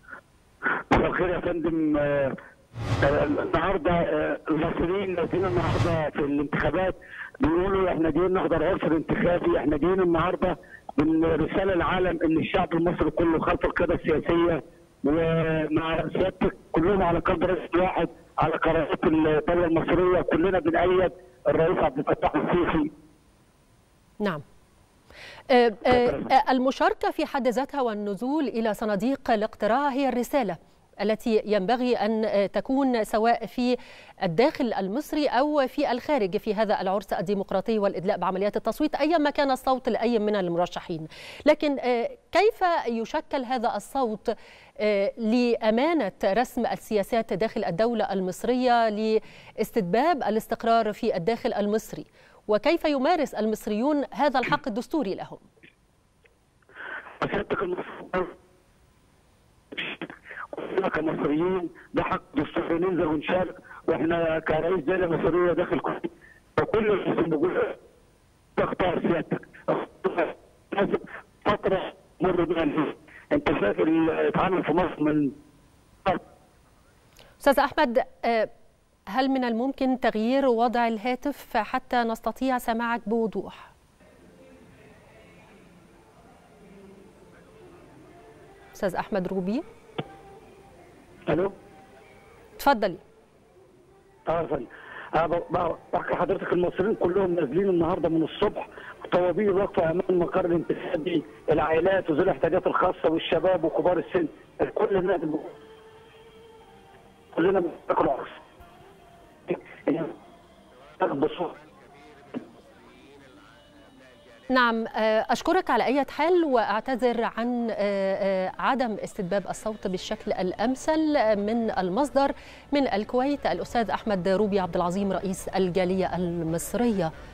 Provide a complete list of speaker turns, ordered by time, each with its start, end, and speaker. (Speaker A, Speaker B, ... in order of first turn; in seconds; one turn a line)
Speaker A: 0.9-2.4
Speaker A: 3.0-22.9
Speaker B: 25.5-55.5
Speaker A: 25.9-26.3
Speaker A: 57.2-58.3
Speaker A: 59.7-67.8
Speaker A: 68.6-75.3
Speaker B: 77.4-78.5
Speaker B: 79.1-83.7
Speaker B: 88.8-89.7
Speaker A: 91.3-91.5
Speaker B: 92.6-93.0
Speaker A: 94.3-105.5
Speaker A: 107.3-108.4
Speaker A: 109.5-110.1
Speaker A: 111.0-111.5
Speaker B: 114.5-127.1